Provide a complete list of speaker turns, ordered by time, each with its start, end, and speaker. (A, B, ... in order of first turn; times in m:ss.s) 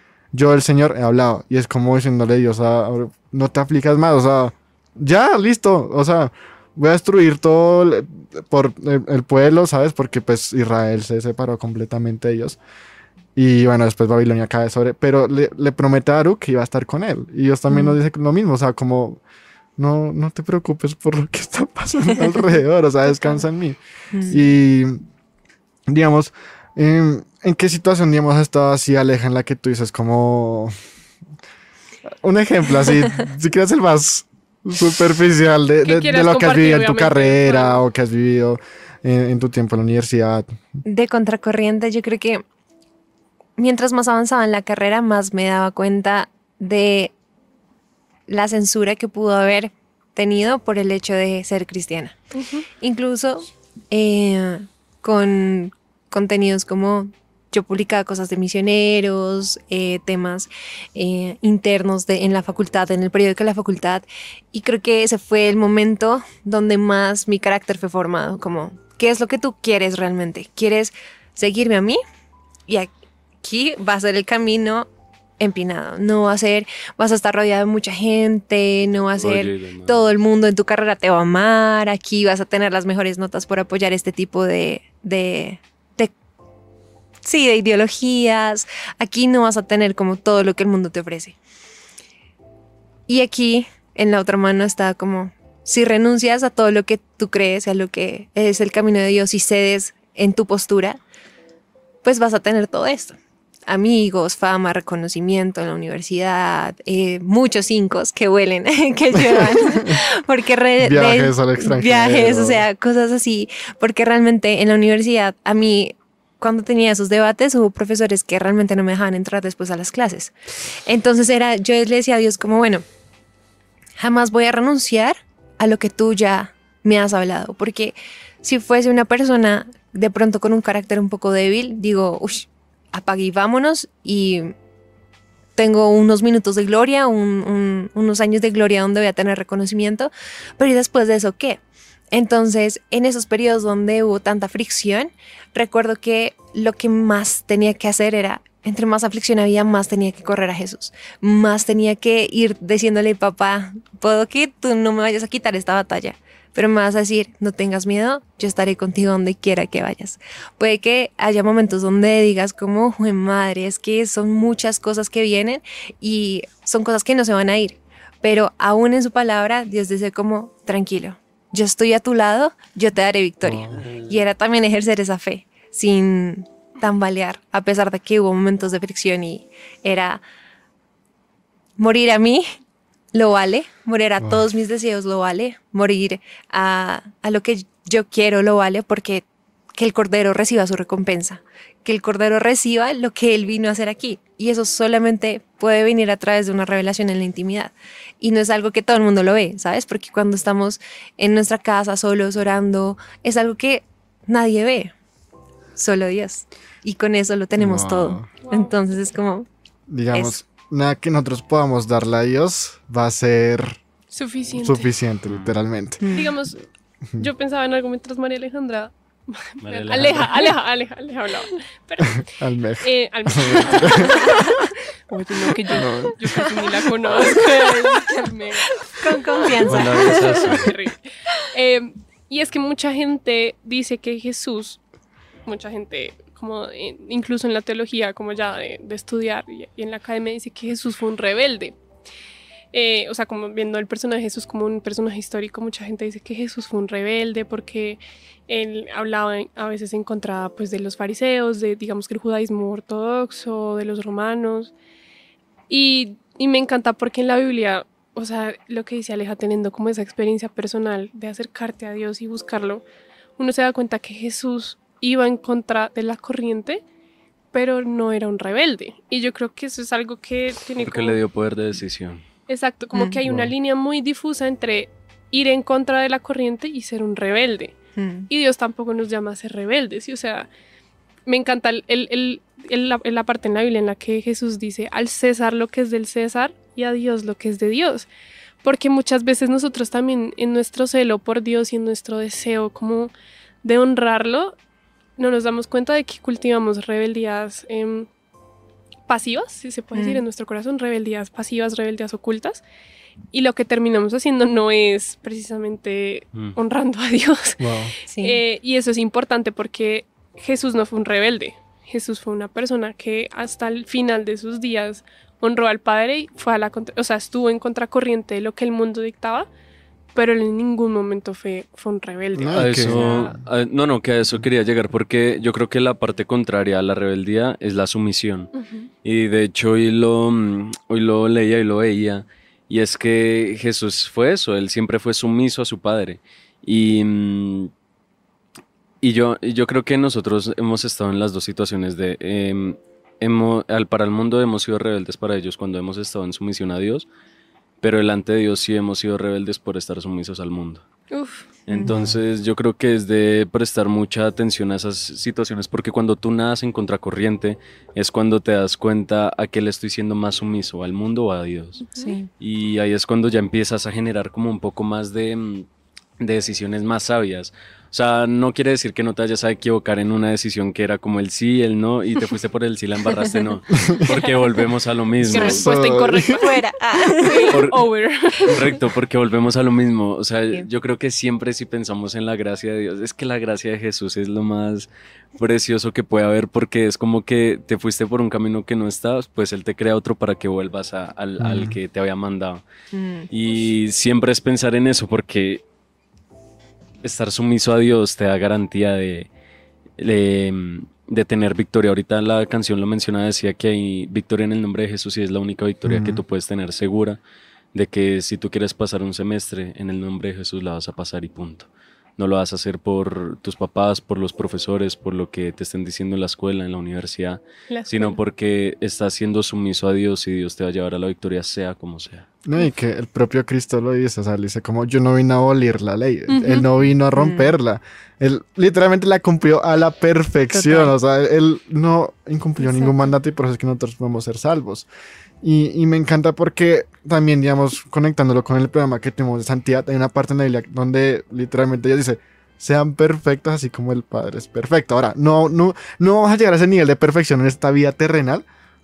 0:00.3-0:12.6 A
0:13.4-0:19.2 A
0:17.7-0:18.0 B
0:19.8-0:25.0 A
0:24.1-0:24.4 B
0:25.9-0:30.7 A
0:32.2-0:40.8 A
0:35.8-0:37.8 C
0:40.8-0:42.4 B
0:43.6-0:47.1 B
0:48.3-0:52.2 B
0:52.3-0:52.6 C
0:52.8-1:12.0 B
1:13.4-1:14.9 B
1:15.4-1:26.1 B
1:19.0-1:20.1 D
1:27.2-1:31.4 B
1:33.1-1:41.0 B
1:42.0-1:43.2 B
1:43.7-2:00.3 B
1:49.1-1:50.0 A
1:50.8-1:52.6 A
2:00.8-2:02.8 B
2:04.0-2:14.5 B
2:15.6-2:21.6 B
2:22.1-3:00.2 B
2:53.4-2:53.8 A
3:01.8-3:02.5 B
3:03.1-3:09.2 B
3:04.2-3:04.5 A
3:09.8-3:24.9 B
3:25.8-3:29.4 B
3:27.6-3:28.3 A
3:28.4-3:28.8 C
3:29.9-3:33.8 A
3:34.1-3:34.9 C
3:34.6-3:36.2 A
3:35.3-3:35.6 D
3:36.0-3:36.3 B
3:36.1-3:36.6 C
3:37.2-3:42.3 C
3:39.6-3:40.4 D
3:42.2-3:44.3 A
3:42.8-3:54.8 C
3:44.1-3:44.5 B
3:45.7-3:46.4 A
3:45.8-3:46.3 B
3:47.1-3:50.5 B
3:49.6-3:50.7 D
3:55.4-4:01.8 C
4:02.7-4:14.7 C
4:15.7-4:22.8 C
4:23.4-4:26.8 C
4:27.5-4:31.2 C
4:30.8-4:32.2 D
4:32.5-4:37.8 C
4:38.0-4:38.3 B
4:38.3-4:40.5 C
4:41.2-4:48.1 C
4:48.6-4:53.1 C
4:53.6-4:54.5 C
4:55.2-4:58.1 C
4:59.1-5:02.6 C
4:59.9-5:00.2 B
5:03.3-5:07.6 C
5:07.6-5:07.9 A
5:08.1-5:08.4 B
5:08.2-5:19.5 C
5:20.1-5:23.4 C
5:22.3-5:23.0 A
5:22.5-5:28.5 D
5:28.5-5:28.9 C
5:29.0-5:37.7 D
5:39.0-5:47.1 D
5:47.8-5:50.8 D
5:51.1-5:51.4 C
5:51.7-6:01.9 D
5:51.8-5:52.2 A
6:01.9-6:02.3 B
6:02.4-6:05.7 D
6:06.2-6:15.6 D
6:14.1-6:14.5 C
6:15.2-6:16.4 A
6:15.3-6:16.6 C
6:15.3-6:17.5 B
6:17.2-6:18.7 C
6:17.5-6:17.8 D
6:18.4-6:32.6 D
6:31.4-6:31.8 A
6:32.9-6:33.3 B
6:33.3-6:35.6 D
6:37.0-6:39.3 D
6:40.0-6:47.2 D
6:45.8-6:46.2 A
6:47.7-7:02.3 D
6:57.7-6:58.2 C
7:02.4-7:14.9 A
7:06.3-7:06.7 C
7:07.1-7:07.5 B
7:10.5-7:10.9 B
7:12.6-7:13.0 B
7:15.4-7:28.4 A